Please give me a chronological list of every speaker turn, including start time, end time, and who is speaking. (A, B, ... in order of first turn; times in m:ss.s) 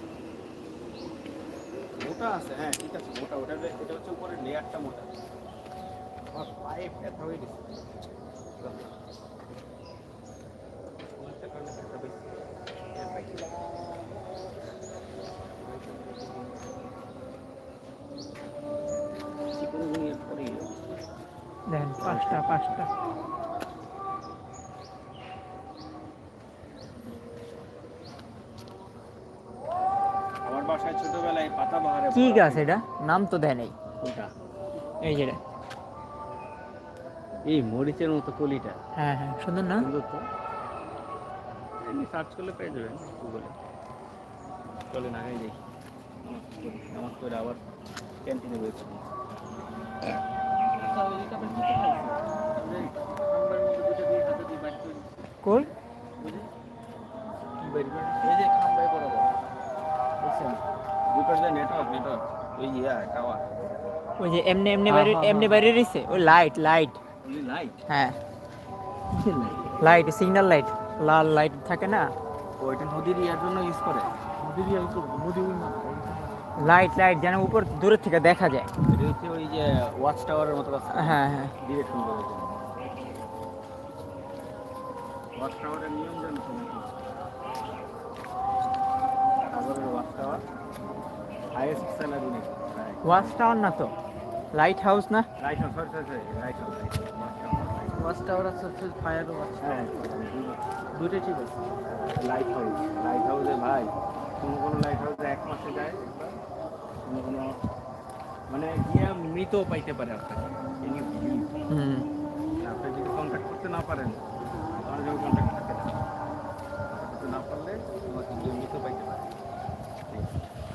0:02.0-0:05.1 A
0:06.3-0:08.0 A
0:08.6-0:08.9 A
0:11.2-0:12.3 A
0:12.9-0:13.5 A
0:15.6-0:16.7 A
0:19.5-0:20.8 A
0:21.7-0:22.9 B
0:22.0-0:22.8 A
0:30.4-0:32.8 A
0:32.1-0:33.7 B
0:34.0-0:34.3 A
0:35.0-0:35.4 B
0:37.4-0:38.8 A
0:39.0-0:39.9 B
0:39.8-0:40.2 A
0:41.8-0:43.5 A
0:44.9-0:45.6 A
0:46.2-0:47.6 A
0:48.2-0:49.1 A
0:50.8-0:55.1 C
0:50.8-0:52.0 A
0:55.4-0:55.7 B
0:57.6-0:59.1 C
0:57.7-0:59.2 A
1:00.2-1:03.8 A
1:04.2-1:07.0 B
1:04.9-1:05.7 C
1:07.2-1:07.8 A
1:07.9-1:08.2 B
1:09.1-1:10.1 A
1:09.8-1:12.1 B
1:12.6-1:14.1 A
1:14.4-1:16.8 C
1:16.6-1:18.7 B
1:18.9-1:22.6 A
1:20.9-1:21.5 B
1:25.4-1:27.0 A
1:29.4-1:30.4 A
1:31.5-1:33.4 A
1:33.0-1:33.9 B
1:34.5-1:35.3 B
1:35.4-1:38.2 A
1:37.9-1:39.9 C
1:39.6-1:40.6 A
1:40.9-1:41.6 C
1:42.2-1:46.4 A
1:47.0-1:47.6 A
1:48.5-1:51.5 A
1:51.7-1:52.0 B
1:52.6-1:54.2 A
1:54.8-1:56.1 A
1:56.9-1:59.3 A
2:00.1-2:00.4 A